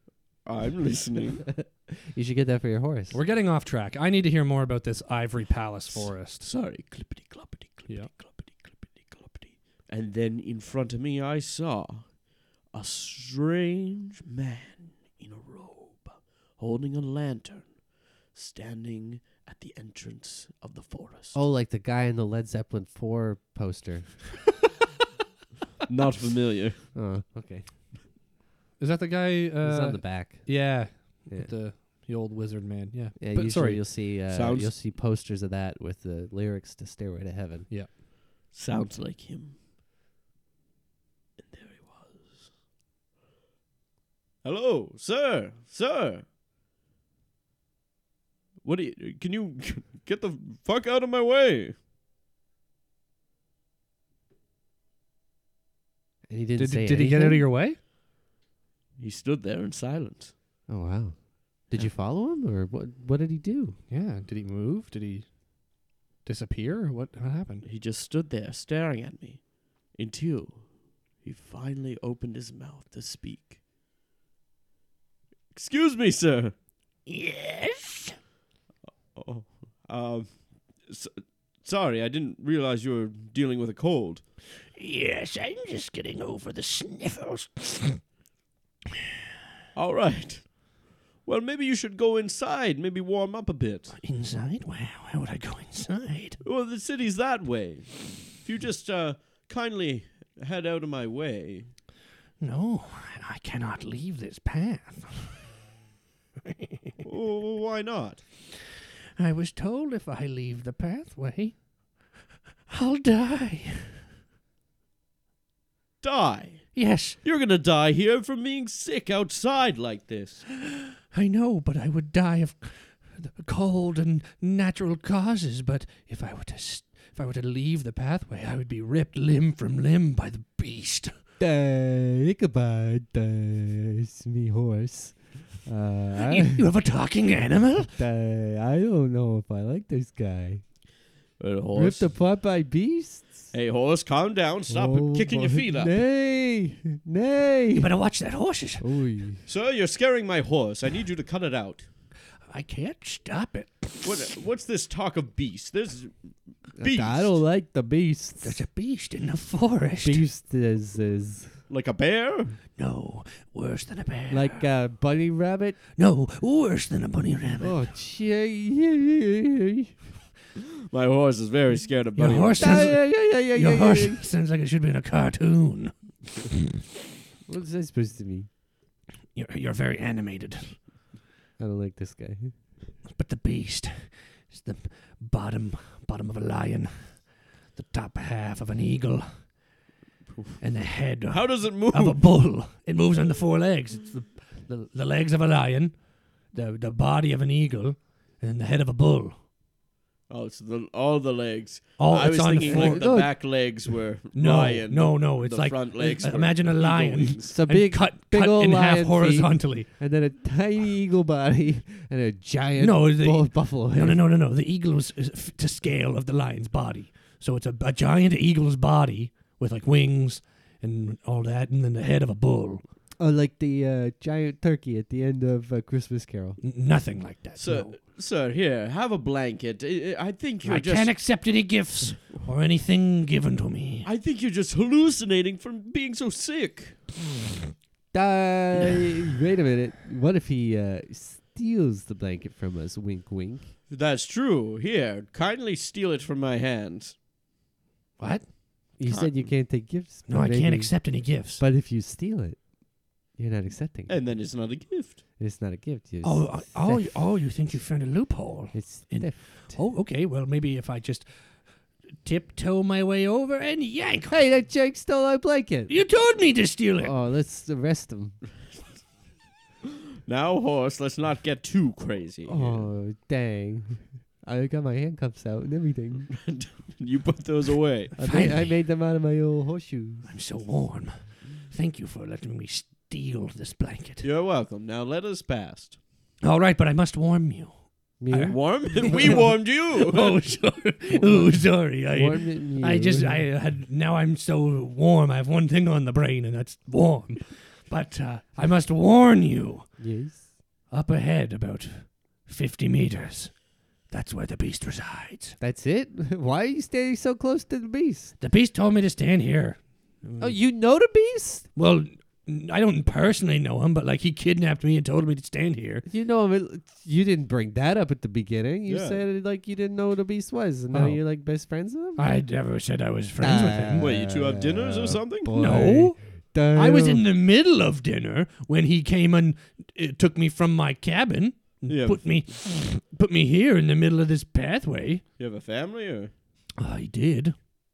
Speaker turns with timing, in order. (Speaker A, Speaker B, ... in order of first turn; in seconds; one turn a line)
Speaker A: 0.4-1.5
Speaker B: 1.5-3.2
Speaker C: 3.1-6.5
Speaker A: 5.9-12.2
Speaker A: 12.7-21.4
Speaker B: 21.3-24.2
Speaker A: 25.9-26.9
Speaker B: 26.9-27.7
Speaker C: 28.8-33.8
Speaker B: 29.6-31.5
Speaker B: 33.2-37.7
Speaker A: 34.3-34.7
Speaker A: 38.5-39.5
Speaker A: 41.4-42.5
Speaker A: 44.4-46.2
Speaker A: 48.6-51.7
Speaker B: 56.3-57.5
Speaker C: 56.6-57.8
Speaker A: 59.0-60.3
Speaker B: 60.7-63.8
Speaker C: 63.9-65.4
Speaker C: 66.2-67.6
Speaker A: 67.6-73.6
Speaker A: 75.5-76.5
Speaker C: 77.0-78.2
Speaker A: 79.1-80.3
Speaker A: 80.8-81.1
Speaker A: 81.6-84.2
Speaker C: 84.7-88.0
Speaker A: 89.7-94.0
Speaker C: 93.9-96.4
Speaker A: 96.4-101.7
Speaker C: 102.4-105.5
Speaker C: 106.4-107.0
Speaker A: 107.0-108.2
Speaker C: 109.2-111.6
Speaker C: 112.7-114.0
Speaker A: 116.0-120.5
Speaker C: 116.7-117.2
Speaker C: 120.7-131.1
Speaker B: 131.4-136.6
Speaker C: 136.2-137.9
Speaker B: 137.9-140.6
Speaker A: 141.4-142.1
Speaker B: 141.7-143.5
Speaker A: 143.5-146.0
Speaker B: 144.7-147.9
Speaker C: 147.8-148.8
Speaker B: 148.8-149.4
Speaker A: 149.5-151.8
Speaker C: 152.5-154.2
Speaker A: 154.0-156.1
Speaker A: 156.7-157.4
Speaker B: 156.8-158.6
Speaker C: 158.4-160.2
Speaker B: 160.0-161.6
Speaker A: 161.7-162.6
Speaker C: 162.8-164.6
Speaker B: 164.3-165.8
Speaker C: 165.9-167.9
Speaker B: 167.6-169.9
Speaker A: 170.9-172.9
Speaker C: 172.2-175.9
Speaker B: 172.6-174.2
Speaker B: 177.5-178.5
Speaker C: 179.3-180.8
Speaker B: 181.6-182.5
Speaker C: 183.1-189.5
Speaker C: 190.6-196.0
Speaker A: 191.3-192.2
Speaker C: 196.5-199.4
Speaker A: 200.3-207.5
Speaker C: 202.0-203.1
Speaker B: 202.7-203.4
Speaker C: 204.3-209.9
Speaker B: 207.4-214.2
Speaker C: 212.8-222.8
Speaker B: 223.2-226.6
Speaker C: 226.6-227.8
Speaker A: 227.6-231.2
Speaker C: 230.6-234.1
Speaker A: 234.0-237.0
Speaker B: 238.1-243.7
Speaker A: 243.9-247.2
Speaker C: 248.2-248.6
Speaker B: 249.0-254.3
Speaker A: 249.1-249.5
Speaker C: 250.3-251.6
Speaker A: 254.1-255.2
Speaker B: 255.4-257.1
Speaker C: 256.2-261.2
Speaker B: 258.7-259.8
Speaker C: 262.2-264.4
Speaker B: 264.3-265.9
Speaker C: 265.9-267.1
Speaker B: 267.0-268.4
Speaker A: 270.2-272.9
Speaker B: 272.5-276.3
Speaker A: 276.3-278.1
Speaker B: 278.2-280.3
Speaker C: 278.2-278.7
Speaker C: 280.3-284.3
Speaker A: 284.2-286.0
Speaker C: 286.4-288.6
Speaker B: 288.2-289.4
Speaker A: 288.4-290.4
Speaker C: 289.9-299.9
Speaker B: 291.1-293.4
Speaker B: 300.0-300.5
Speaker C: 300.9-303.6
Speaker C: 304.1-305.6
Speaker B: 305.6-308.4
Speaker C: 308.4-310.6
Speaker B: 310.4-311.6
Speaker C: 311.8-316.0
Speaker B: 316.1-322.2
Speaker A: 318.9-319.2
Speaker C: 320.9-321.2
Speaker C: 322.2-324.1
Speaker B: 323.4-327.3
Speaker A: 324.0-325.7
Speaker C: 325.5-326.2
Speaker C: 326.7-335.2
Speaker A: 331.9-332.4
Speaker A: 335.4-336.3
Speaker C: 336.8-337.5